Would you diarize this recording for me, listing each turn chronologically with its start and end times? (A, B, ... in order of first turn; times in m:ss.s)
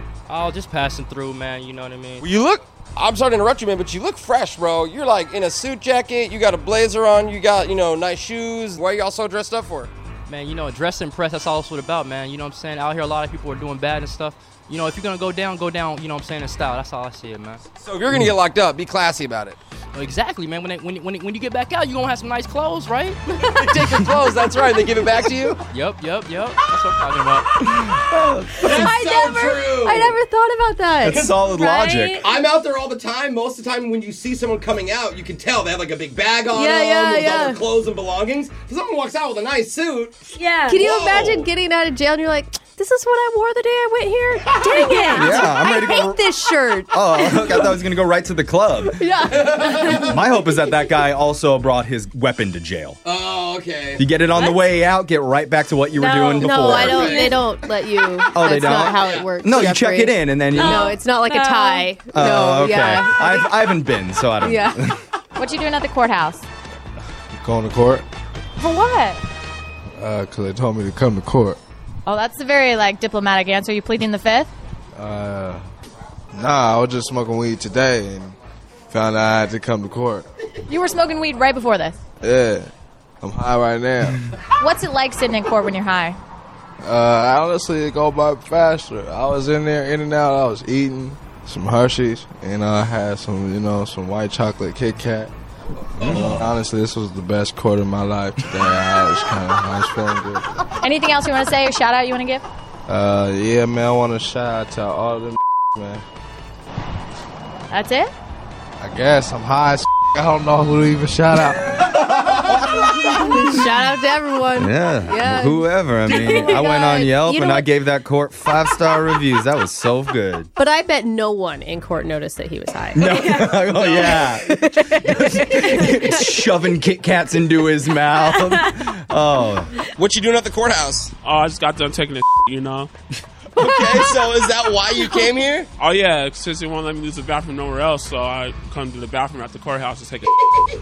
0:00.3-0:02.2 A
0:02.2-0:09.9 B
0:10.3-0:17.6 A
0:17.8-0:19.6 B
0:19.9-0:24.1 A
0:23.4-0:25.6 B
0:25.7-0:27.6 A
0:27.6-0:28.9 C
0:28.6-0:30.2 B
0:28.7-0:31.1 D
0:31.0-0:32.2 C
0:31.4-0:32.2 E
0:32.2-0:40.2 B
0:36.5-0:37.6 D
0:40.5-0:40.7 E
0:40.7-0:47.7 D
0:40.7-0:41.5 B
0:45.1-0:46.4 C
0:46.9-0:49.0 C
0:49.0-0:50.1 D
0:49.3-0:50.1 B
0:49.9-0:53.0 C
0:53.0-0:54.0 B
0:54.0-0:57.2 C
0:56.0-1:03.5 D
0:56.6-0:57.5 B
0:58.3-1:00.9 C
0:58.8-0:59.4 B
1:00.6-1:01.9 E
1:02.1-1:05.0 C
1:04.4-1:04.8 D
1:05.4-1:06.4 E
1:07.4-1:08.1 F
1:08.6-1:09.2 E
1:10.0-1:11.6 F
1:12.1-1:14.5 E
1:15.0-1:15.6 F
1:16.3-1:18.4 F
1:18.9-1:20.3 F
1:20.7-1:22.0 E
1:22.2-1:22.7 F
1:23.2-1:24.3 F
1:24.6-1:26.2 E
1:26.8-1:35.3 F
1:36.0-1:40.6 F
1:36.0-1:36.4 C
1:40.8-1:42.4 E
1:42.9-1:46.0 F
1:47.7-1:48.1 E
1:48.8-1:51.9 F
1:53.3-1:57.7 D
1:54.6-2:00.5 C
2:00.6-2:06.3 D
2:03.0-2:09.7 C
2:10.0-2:11.1 B
2:11.2-2:12.9 G
2:13.6-2:15.7 B
2:15.8-2:20.3 G